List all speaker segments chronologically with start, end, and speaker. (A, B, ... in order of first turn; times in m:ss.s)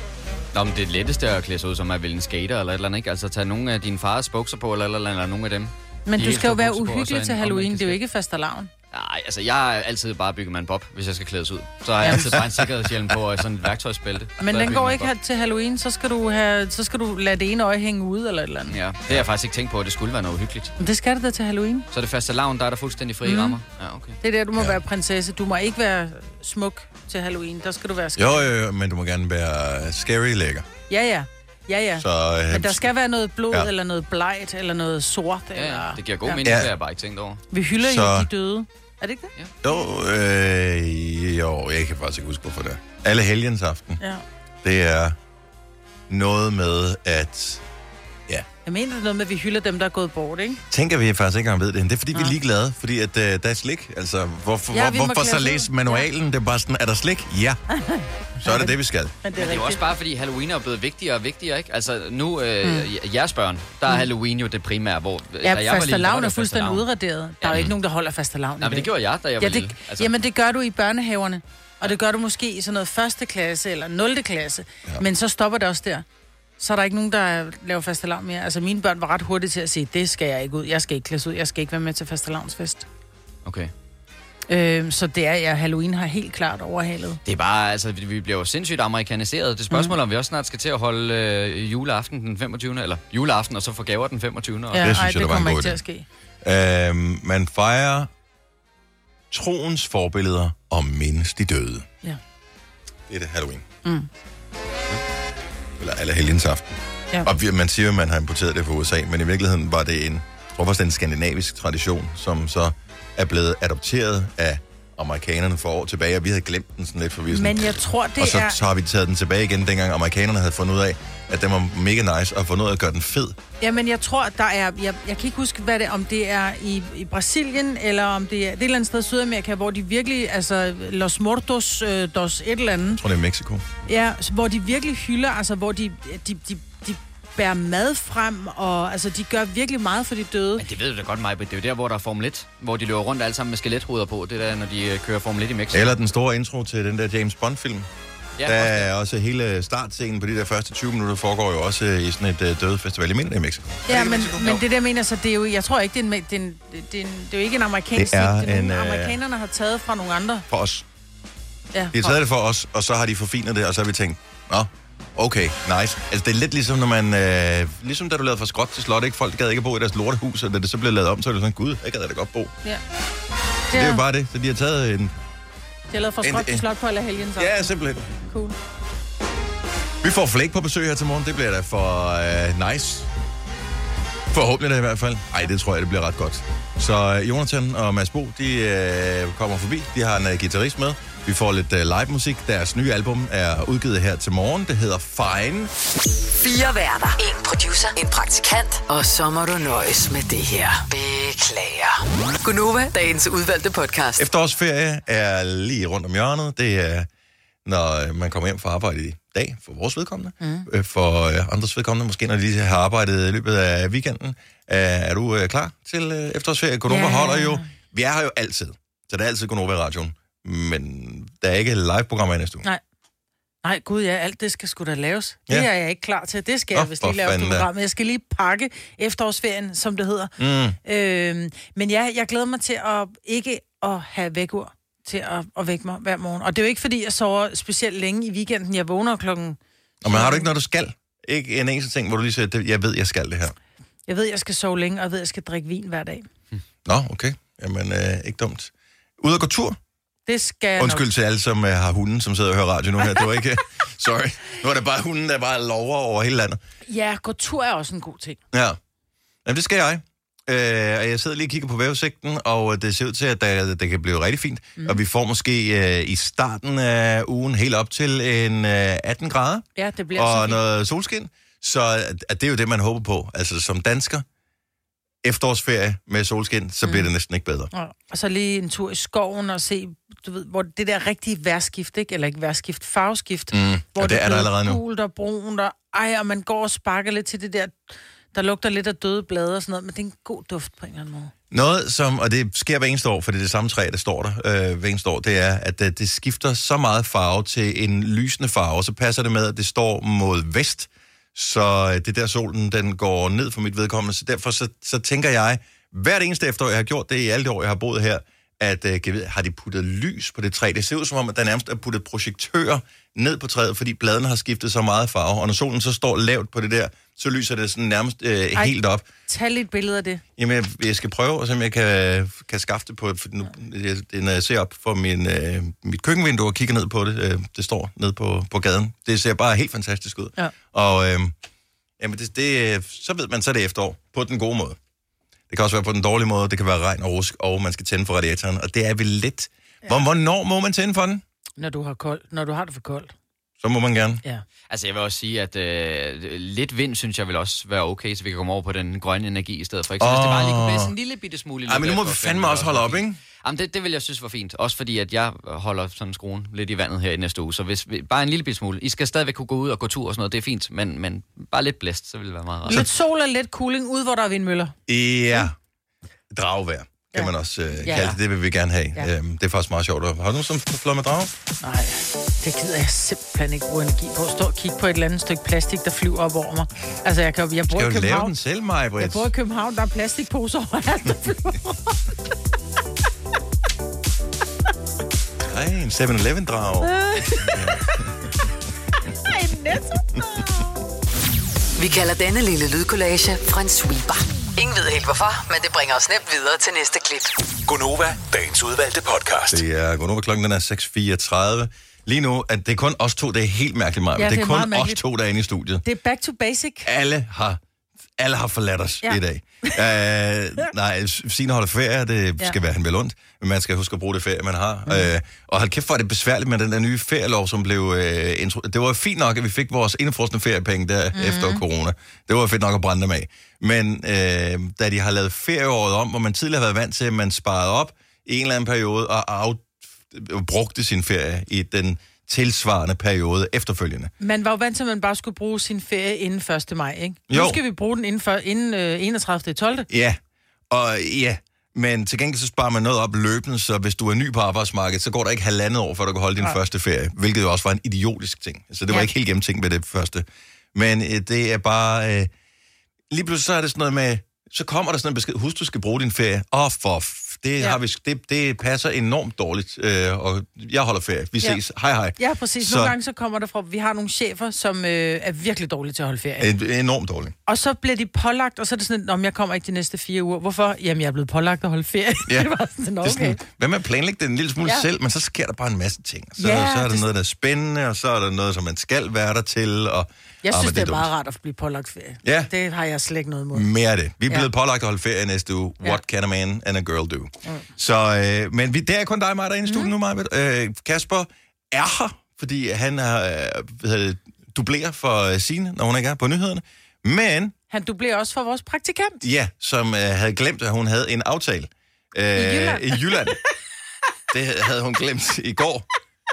0:00.5-0:08.0 A
0:06.1-0:08.7 B
0:08.9-0:15.1 A
0:12.1-0:13.2 C
0:14.4-0:18.8 B
0:18.7-0:20.7 A
0:20.8-0:21.9 B
0:21.9-0:24.2 A
0:23.2-0:23.6 B
0:24.2-0:28.5 B
0:28.2-0:30.6 C
0:30.9-0:36.5 B
0:32.0-0:32.9 C
0:35.6-0:37.4 A
0:36.4-0:36.7 C
0:37.5-0:39.3 B
0:37.8-0:38.3 C
0:39.6-0:44.0 C
0:44.6-0:45.2 C
0:46.1-0:47.6 C
0:48.6-0:50.6 B
0:50.7-0:57.6 C
0:54.7-0:56.1 B
0:57.7-0:59.8 B
0:58.4-0:59.2 C
0:59.4-1:06.9 A
1:05.4-1:16.1 B
1:07.4-1:07.7 A
1:08.6-1:10.1 A
1:16.6-1:22.9 B
1:23.4-1:23.7 A
1:24.5-1:27.2 B
1:27.2-1:34.9 A
1:34.7-1:36.1 B
1:34.8-1:35.8 C
1:36.4-1:38.1 C
1:39.3-1:41.9 C
1:43.1-1:43.6 C
1:45.8-2:03.4 C
1:57.3-1:58.6 B
2:03.6-2:13.0 B
2:12.9-2:13.6 C
2:13.9-2:20.6 B
2:20.6-2:25.9 A
2:25.7-2:27.9 C
2:28.4-2:28.9 A
2:28.4-2:34.6 C
2:33.9-2:40.5 B
2:38.0-2:39.2 C
2:40.5-2:40.8 C
2:41.7-2:42.2 B
2:41.9-2:52.5 C
2:53.7-2:54.0 B
2:53.7-2:55.1 C
2:55.9-2:57.6 B
2:56.2-2:56.7 C
2:57.4-2:58.2 C
2:58.3-2:58.6 B
3:00.0-3:03.1 C
3:04.3-3:15.7 C
3:16.4-3:24.3 D
3:24.2-3:27.1 C
3:27.6-3:42.6 C
3:30.4-3:30.7 B
3:36.9-3:37.6 B
3:43.6-4:00.5 B
3:46.7-3:47.7 C
3:50.4-3:50.8 C
4:00.0-4:03.6 C
4:04.1-4:06.3 B
4:06.9-4:09.8 C
4:10.3-4:11.1 B
4:10.8-4:16.6 C
4:16.9-4:18.4 B
4:18.5-4:18.8 C
4:19.4-4:34.2 C
4:29.8-4:30.6 B
4:35.2-4:37.7 C
4:36.8-4:37.1 B
4:37.7-4:51.3 B
4:43.5-4:44.8 C
4:51.5-5:19.0 C
5:19.3-5:20.2 B
5:20.4-5:31.3 C
5:32.0-5:34.8 C
5:35.5-5:41.2 C
5:41.6-5:43.1 B
5:43.6-5:44.2 C
5:44.7-6:02.8 A
5:50.0-5:50.9 C
5:51.7-5:53.2 C
6:02.7-6:04.8 B
6:04.9-6:05.6 C
6:06.3-6:11.3 C
6:07.8-6:08.2 B
6:11.6-6:18.3 B
6:17.7-6:19.3 C
6:19.0-6:22.0 B
6:25.4-6:28.1 C
6:26.8-6:28.0 B
6:29.1-6:30.7 B
6:31.8-6:37.3 D
6:37.7-6:39.6 E
6:39.5-6:45.8 C
6:44.2-6:45.0 B
6:45.8-6:46.9 B
6:46.8-6:47.6 C
6:48.2-7:14.1 C
6:49.0-6:49.8 B
7:01.1-7:01.6 B
7:14.2-7:19.9 B
7:17.3-7:17.6 C
7:19.9-7:32.3 C
7:33.1-7:43.0 C
7:42.2-7:46.5 B
7:46.4-7:47.3 C
7:47.5-7:53.4 B
7:53.0-8:01.1 C
7:56.4-7:57.1 B
8:00.4-8:03.7 B
8:02.2-8:02.5 C
8:03.5-8:17.6 C
8:17.7-8:19.2 B
8:19.2-8:23.4 C
8:22.4-8:23.3 B
8:24.3-8:25.9 C